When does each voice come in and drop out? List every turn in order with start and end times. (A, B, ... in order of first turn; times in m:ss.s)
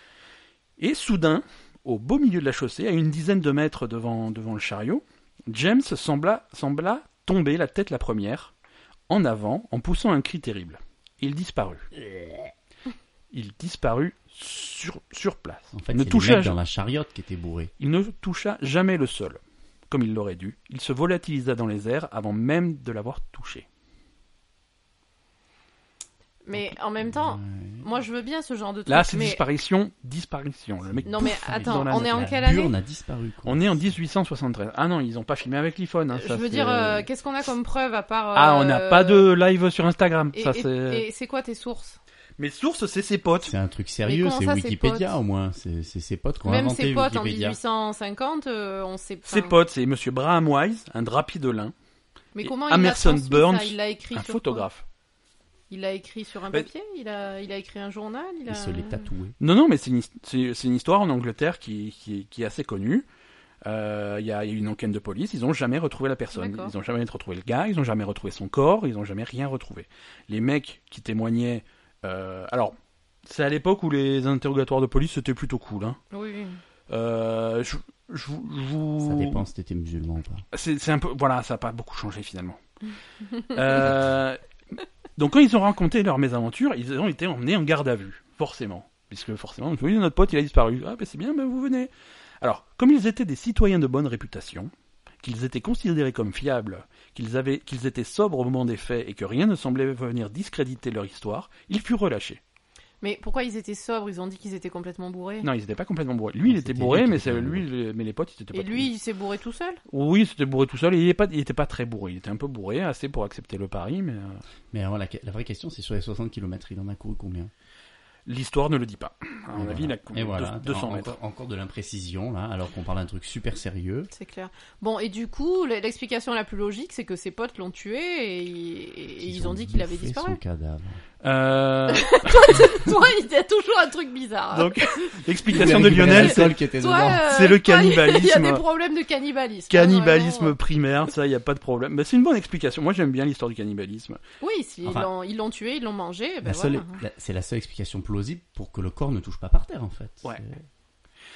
0:00.8-0:08.5 A
0:09.1-0:11.9 A
0:13.3-0:16.6 A
0:15.7-0:17.7 B
0:17.8-0:23.7 A
0:26.4-0:29.4 C
0:26.5-0:27.9 B
0:28.9-0:32.3 A
0:30.8-0:33.9 B
0:31.1-0:32.7 C
0:33.4-0:37.1 A
0:36.1-0:39.3 C
0:38.3-0:41.0 A
0:40.3-0:42.0 C
0:42.4-0:43.5 A
0:43.4-0:47.6 B
0:44.1-0:45.1 C
0:46.4-0:49.6 C
0:49.3-0:51.7 A
0:52.4-0:54.7 C
0:52.4-0:54.8 A
0:55.7-0:59.1 C
0:58.5-0:59.4 B
0:59.4-1:03.1 A
1:03.6-1:12.7 A
1:06.3-1:06.7 C
1:13.2-1:16.0 A
1:16.1-1:16.6 C
1:16.9-1:19.5 A
1:19.0-1:20.4 B
1:20.5-1:22.6 A
1:23.4-1:24.4 A
1:25.2-1:31.9 A
1:32.4-1:34.7 A
1:35.2-1:42.4 A
1:43.0-1:45.5 C
1:45.4-1:48.9 A
1:46.4-1:47.7 B
1:48.5-1:49.8 C
1:49.9-1:54.4 A
1:54.7-1:57.5 B
1:58.3-2:01.1 A
1:59.5-2:04.1 B
2:04.1-2:10.4 C
2:09.2-2:11.0 B
2:11.2-2:12.6 A
2:11.9-2:20.6 C
2:14.5-2:16.6 A
2:15.5-2:17.3 B
2:17.2-2:18.6 A
2:19.7-2:24.2 A
2:24.4-2:27.0 C
2:24.8-2:25.1 B
2:26.4-2:30.6 B